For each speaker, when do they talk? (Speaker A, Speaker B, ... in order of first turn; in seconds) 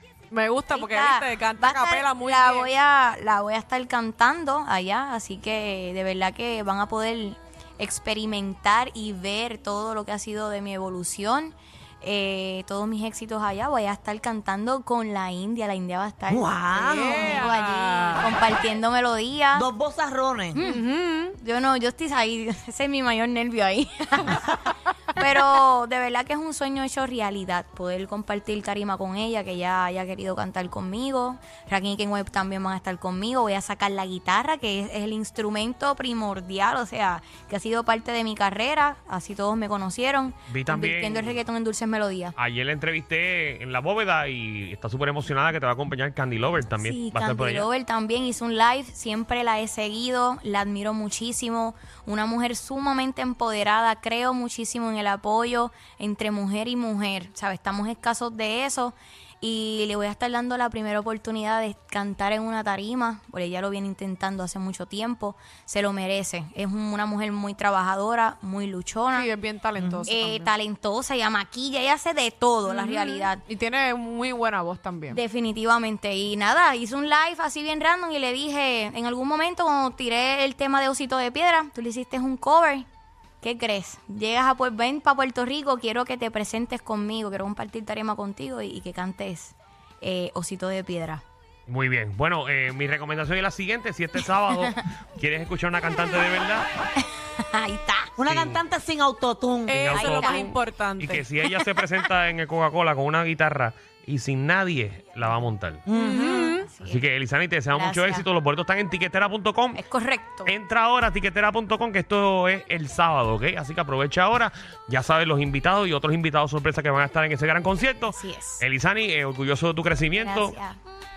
Speaker A: 0.3-2.7, 16.7-18.4, 20.6-21.4, 69.1-70.5, 72.7-75.2, 99.7-101.2, 105.9-106.7
Speaker B: 0.7-19.7, 20.5-42.3, 46.8-69.3, 70.1-73.4, 75.1-82.8, 83.4-91.2, 97.4-98.2, 99.9-100.4, 106.6-107.0, 107.7-108.3, 109.8-110.5, 118.1-118.6, 120.2-120.8
Speaker C: 16.3-17.4, 19.5-20.6, 69.8-70.1, 98.2-99.9, 105.9-106.6
Speaker D: 40.5-41.4, 42.4-47.7, 91.7-96.7, 98.2-98.6, 99.7-105.8, 106.8-109.8, 110.5-120.6